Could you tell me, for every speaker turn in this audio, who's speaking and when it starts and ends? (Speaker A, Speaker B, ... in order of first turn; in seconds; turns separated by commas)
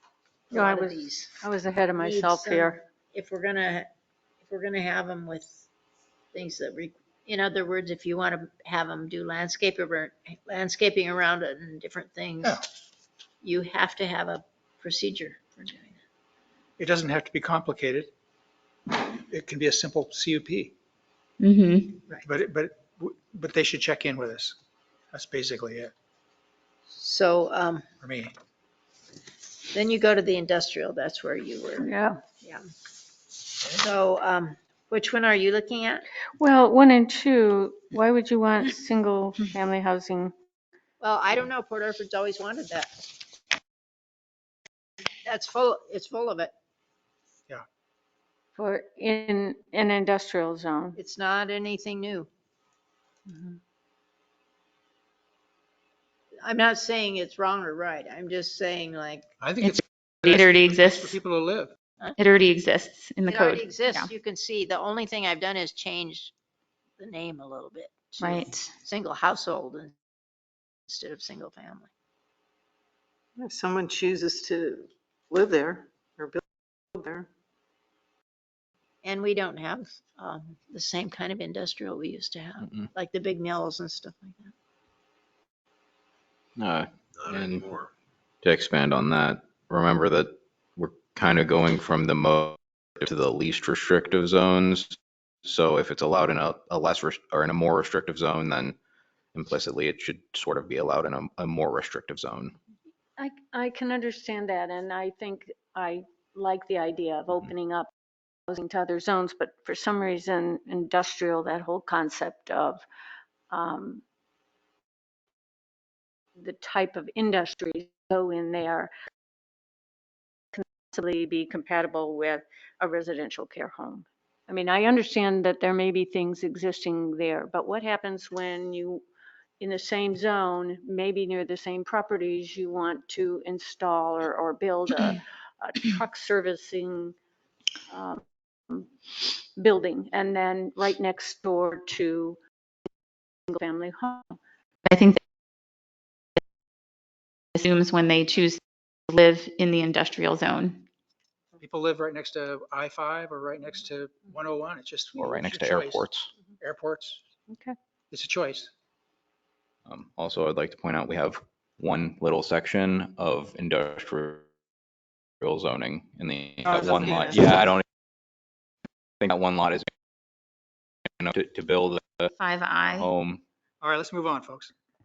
Speaker A: 0.5-1.3, Speaker B: 0.5-2.8, Speaker A: 2.0-3.9, Speaker A: 4.4-5.7, Speaker A: 6.3-12.6, Speaker A: 13.4-16.0, Speaker C: 16.8-18.1, Speaker C: 18.9-20.7, Speaker D: 21.4-22.0, Speaker C: 22.3-24.6, Speaker C: 25.1-25.9, Speaker A: 26.9-27.9, Speaker C: 28.0-28.3, Speaker A: 29.7-31.9, Speaker B: 31.8-32.2, Speaker A: 32.4-32.7, Speaker A: 33.7-36.0, Speaker B: 36.4-40.3, Speaker A: 41.0-43.1, Speaker A: 45.2-46.5, Speaker B: 48.6-51.0, Speaker A: 51.0-52.3, Speaker A: 56.4-59.3, Speaker C: 59.4-61.8, Speaker D: 59.6-61.2, Speaker D: 62.2-64.1, Speaker A: 63.3-66.3, Speaker A: 67.0-69.9, Speaker D: 68.2-68.7, Speaker A: 70.9-71.9, Speaker E: 73.4-74.8, Speaker E: 75.4-76.4, Speaker E: 77.0-77.3, Speaker A: 79.0-84.5, Speaker F: 86.6-87.7, Speaker F: 88.4-98.8, Speaker F: 99.3-102.6, Speaker B: 103.2-107.9, Speaker B: 108.5-112.8, Speaker B: 113.5-114.0, Speaker B: 116.4-118.9, Speaker B: 120.5-129.1, Speaker B: 129.6-137.2, Speaker B: 137.9-138.9, Speaker B: 139.6-142.4, Speaker B: 143.5-144.4, Speaker D: 144.9-145.2, Speaker D: 147.6-150.8, Speaker C: 151.6-157.2, Speaker F: 155.2-156.3, Speaker B: 157.5-157.8, Speaker C: 158.1-158.7, Speaker F: 159.9-164.4, Speaker F: 165.4-167.8, Speaker F: 169.2-169.9, Speaker F: 171.2-172.3, Speaker D: 172.3-173.1, Speaker F: 173.0-173.4, Speaker C: 173.8-174.7